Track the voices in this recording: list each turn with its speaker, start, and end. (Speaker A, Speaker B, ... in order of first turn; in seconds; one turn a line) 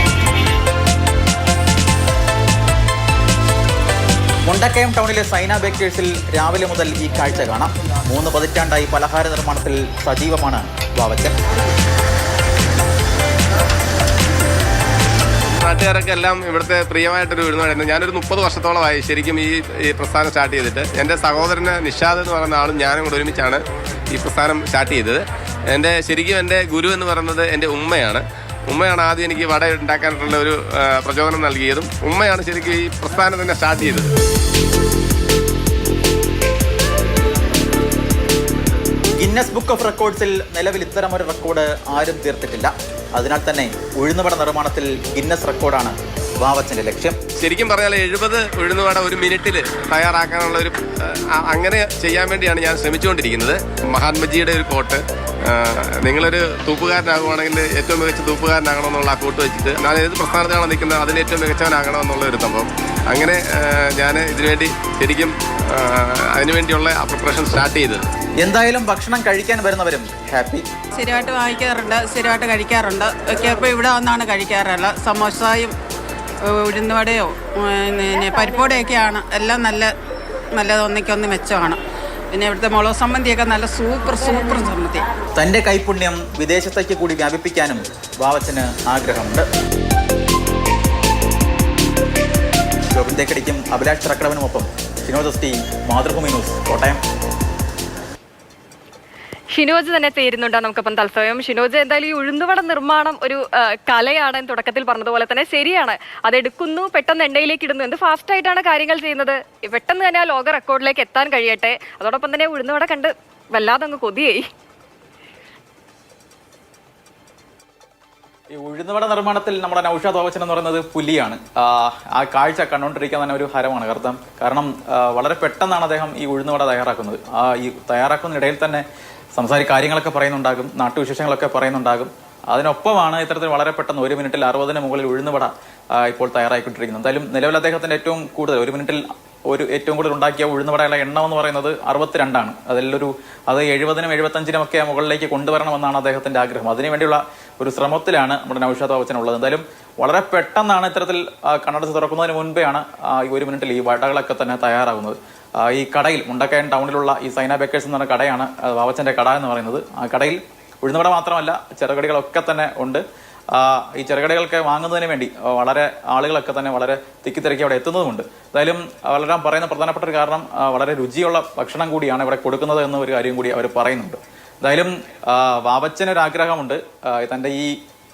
Speaker A: 4.5-11.3
Speaker B: 15.5-34.1
Speaker A: 39.2-47.2
Speaker B: 47.4-68.0
Speaker A: 68.4-70.7
Speaker C: 70.9-75.7
Speaker C: 76.4-79.9
Speaker C: 80.5-81.8
Speaker C: 82.3-85.0
Speaker A: 85.3-89.5
Speaker A: 92.9-97.0
Speaker D: 99.5-114.5
Speaker A: 118.5-128.8
Speaker A: 129.3-163.0
Speaker A: 163.5-177.8